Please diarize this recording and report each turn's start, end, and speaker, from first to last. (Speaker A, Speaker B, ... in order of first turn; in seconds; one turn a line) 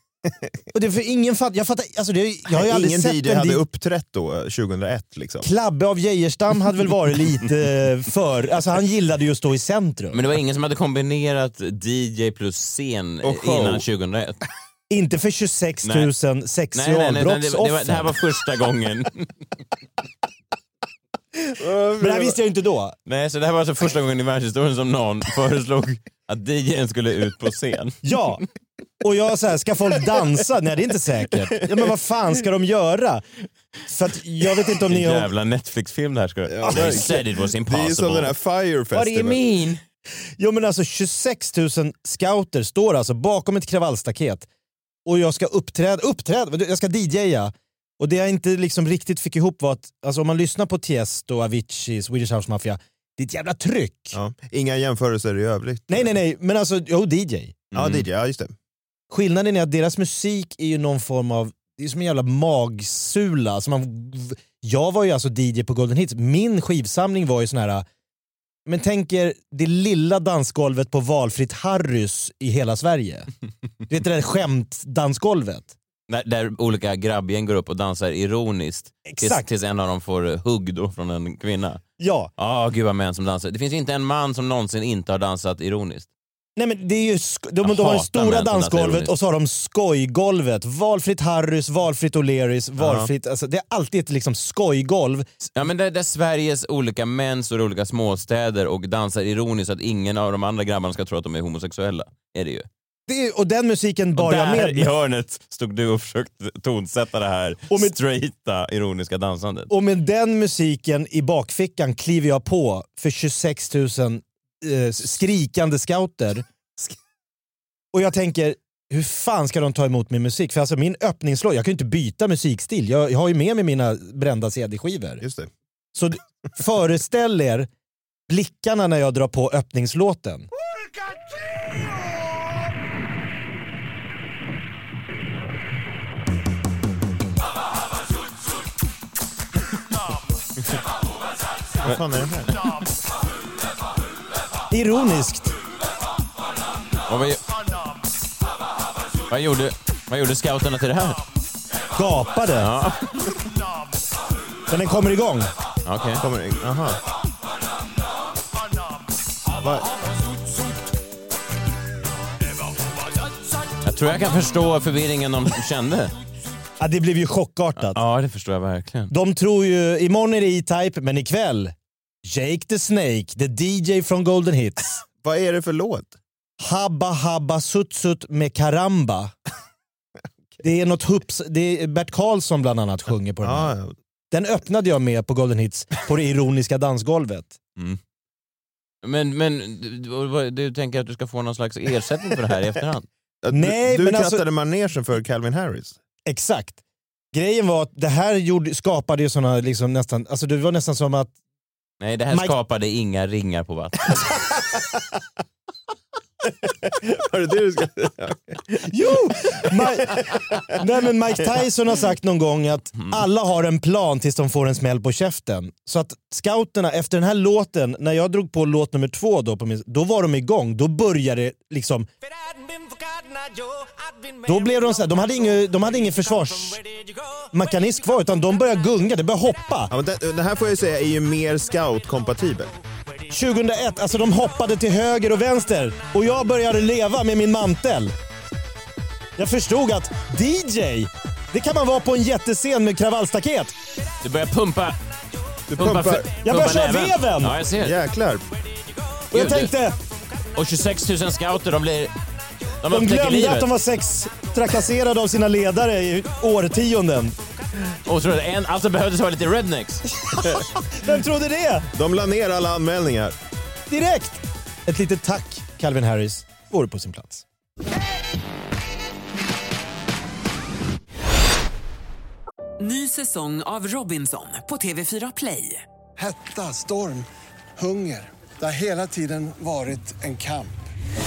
Speaker A: 0.7-3.6
Speaker B: 2.5-5.5
Speaker A: 5.4-10.2
Speaker C: 10.1-14.4
Speaker B: 13.2-13.8
Speaker A: 14.9-18.1
Speaker C: 15.8-16.1
Speaker C: 16.7-19.3
Speaker B: 21.6-22.4
Speaker A: 22.0-22.9
Speaker C: 23.1-28.1
Speaker A: 28.0-28.4
Speaker A: 29.0-33.2
Speaker A: 33.9-35.3
Speaker C: 34.9-38.3
Speaker B: 36.5-39.5
Speaker A: 36.6-37.1
Speaker C: 39.0-39.3
Speaker A: 39.1-39.4
Speaker A: 40.4-44.5
Speaker A: 45.1-54.2
Speaker B: 54.1-56.1
Speaker A: 55.9-57.6
Speaker C: 57.7-58.0
Speaker B: 57.7-58.5
Speaker A: 59.1-67.8
Speaker A: 68.7-73.3
Speaker A: 73.9-75.7
Speaker C: 76.1-81.8
Speaker A: 79.1-79.5
Speaker A: 82.0-82.3
Speaker C: 82.4-86.1
Speaker A: 86.6-95.3
Speaker C: 87.6-89.1
Speaker B: 92.8-93.1
Speaker C: 95.6-102.7
Speaker A: 103.1-104.9
Speaker C: 104.2-109.7
Speaker A: 109.7-116.4
Speaker A: 117.9-125.2
Speaker B: 125.2-125.5
Speaker A: 125.9-127.7
Speaker A: 128.3-130.5
Speaker B: 141.8-142.6
Speaker A: 144.7-145.5
Speaker C: 147.1-147.4
Speaker C: 149.3-151.2
Speaker A: 151.9-152.7
Speaker C: 152.6-153.2
Speaker A: 154.7-155.5
Speaker C: 155.9-156.2
Speaker B: 156.2-157.0
Speaker B: 159.6-159.9
Speaker C: 163.8-166.1
Speaker A: 166.8-168.0
Speaker C: 167.8-169.1
Speaker A: 169.1-175.0
Speaker B: 175.2-176.1
Speaker A: 176.6-179.3
Speaker A: 180.6-183.7
Speaker B: 183.4-183.9
Speaker A: 184.3-187.6
Speaker C: 189.0-193.1
Speaker B: 193.4-196.0
Speaker A: 193.5-194.4
Speaker A: 196.3-196.8
Speaker A: 197.3-201.3
Speaker C: 202.0-204.2
Speaker B: 206.8-208.6
Speaker A: 208.8-222.1
Speaker B: 210.1-210.4
Speaker A: 224.4-226.8
Speaker A: 227.5-229.9
Speaker B: 229.9-232.7
Speaker A: 233.3-238.1
Speaker A: 239.4-243.8
Speaker C: 244.2-245.0
Speaker B: 245.7-246.3
Speaker C: 245.8-247.9
Speaker A: 246.4-247.6
Speaker B: 247.8-248.4
Speaker A: 249.3-249.9
Speaker C: 249.3-249.7
Speaker C: 250.6-252.1
Speaker C: 252.8-253.7
Speaker A: 252.9-257.4
Speaker C: 258.1-260.1
Speaker A: 260.3-261.9
Speaker B: 261.9-263.4
Speaker A: 263.9-267.4
Speaker D: 272.8-275.8
Speaker E: 276.2-280.7